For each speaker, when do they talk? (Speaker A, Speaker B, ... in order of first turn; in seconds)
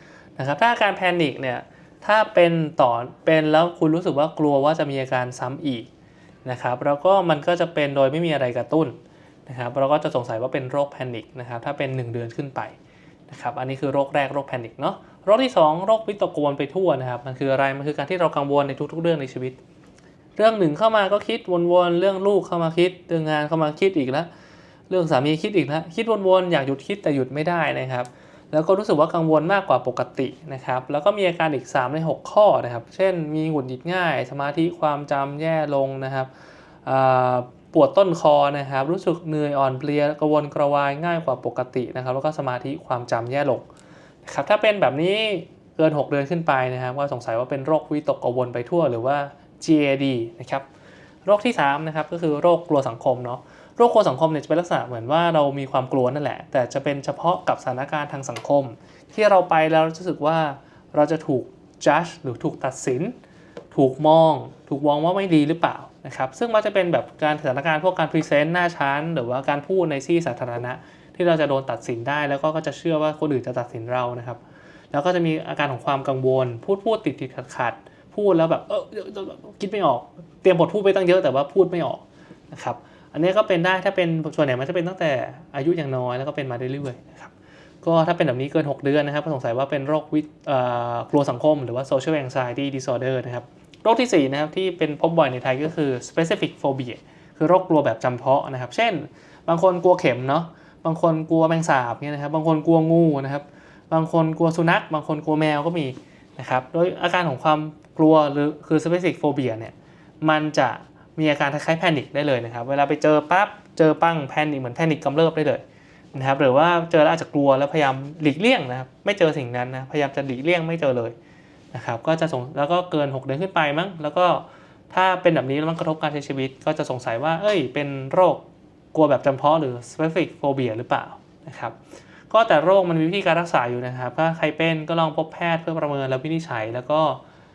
Speaker A: 0.4-5.9, 6.5-12.8, 13.3-19.6, 20.4-24.3, 24.9-36.3, 36.9-43.7, 44.2-50.6, 51.2-63.2, 63.7-74.4, 74.9-87.3, 87.8-115.6, 116.1-121.2, 121.7-131.8, 132.3-137.2